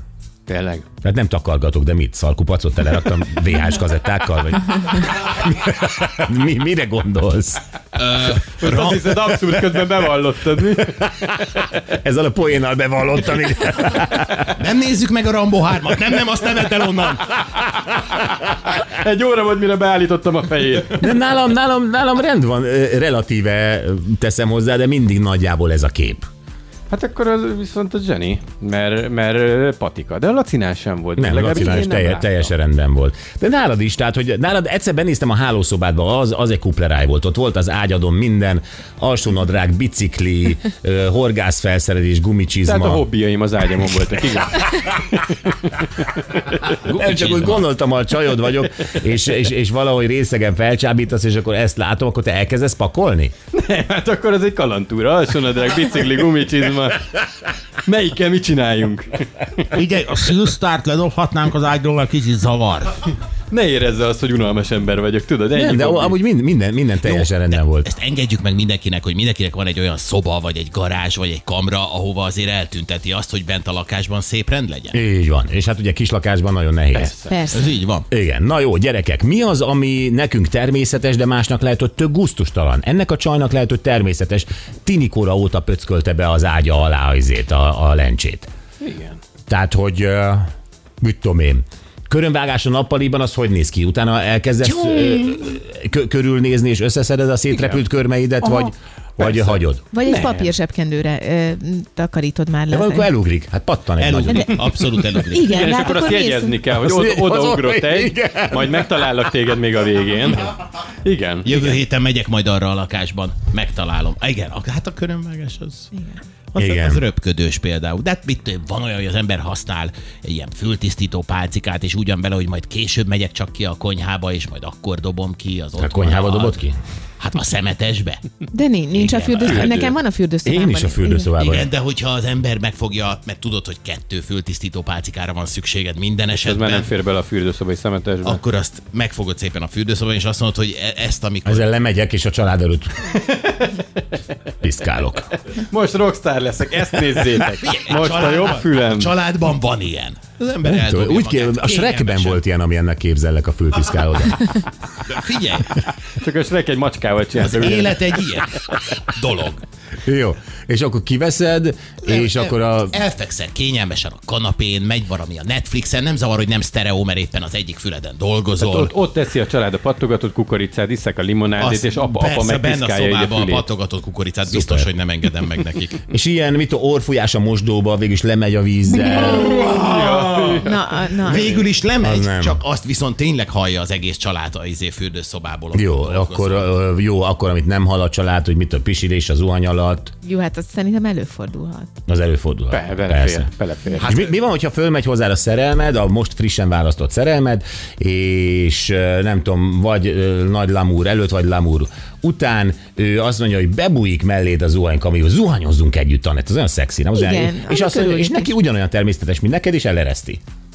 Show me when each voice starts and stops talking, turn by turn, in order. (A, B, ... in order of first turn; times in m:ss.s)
0:00.4-0:00.8 A
0:01.0-0:07.6 B
0:07.9-0:09.4 C
0:08.6-0:11.4 A
0:11.9-0:14.5 B
0:14.6-0:17.4 C
0:18.5-0:21.1 A
0:20.9-0:26.3 B
0:26.9-0:32.5 A
0:31.2-0:43.0 B
0:42.6-0:46.6 A
0:46.8-0:53.3 B
0:46.8-0:47.6 C
0:53.5-0:57.1 A
0:57.8-0:59.3 A
0:59.7-1:03.0 C
1:03.5-1:06.2 A
1:05.5-1:07.9 B
1:07.0-1:15.0 C
1:14.9-1:17.2 B
1:16.9-1:17.4 A
1:17.3-1:17.8 D
1:17.5-1:18.0 C
1:18.1-1:28.5 B
1:28.8-1:29.2 A
1:29.5-1:30.4 B
1:31.0-1:39.8 B
1:37.5-1:37.8 A
1:38.4-1:40.5 A
1:39.9-1:43.1 D
1:42.7-1:44.6 B
1:44.0-1:45.9 C
1:44.2-1:46.6 D
1:45.5-1:51.7 A
1:46.8-1:49.2 B
1:51.4-1:55.9 C
1:55.9-1:56.2 D
1:56.5-2:06.6 C
1:56.6-1:57.0 B
2:05.8-2:06.8 B
2:07.2-2:08.2 C
2:08.5-2:11.3 D
2:08.9-2:10.0 C
2:09.5-2:09.7 A
2:10.4-2:11.7 B
2:11.4-2:16.9 C
2:16.4-2:18.4 A
2:18.2-2:21.7 C
2:21.4-2:22.9 B
2:23.1-2:23.8 A
2:24.6-2:25.3 B
2:25.5-2:29.1 A
2:27.6-2:32.4 C
2:30.6-2:34.5 B
2:35.0-2:35.8 C
2:36.2-2:38.0 A
2:37.4-2:39.6 C
2:40.0-2:43.0 B
2:42.0-2:48.9 C
2:48.6-2:53.7 A
2:51.6-2:56.0 C
2:54.5-2:54.9 B
2:56.1-2:59.6 B
2:59.1-3:00.6 C
2:59.4-3:00.6 A
3:00.6-3:01.6 D
3:01.2-3:06.7 C
3:01.3-3:01.6 A
3:02.0-3:02.6 B
3:05.7-3:10.1 B
3:10.2-3:11.9 D
3:12.1-3:13.5 B
3:12.7-3:14.2 A
3:14.0-3:14.3 C
3:14.0-3:30.4 B
3:27.1-3:28.5 D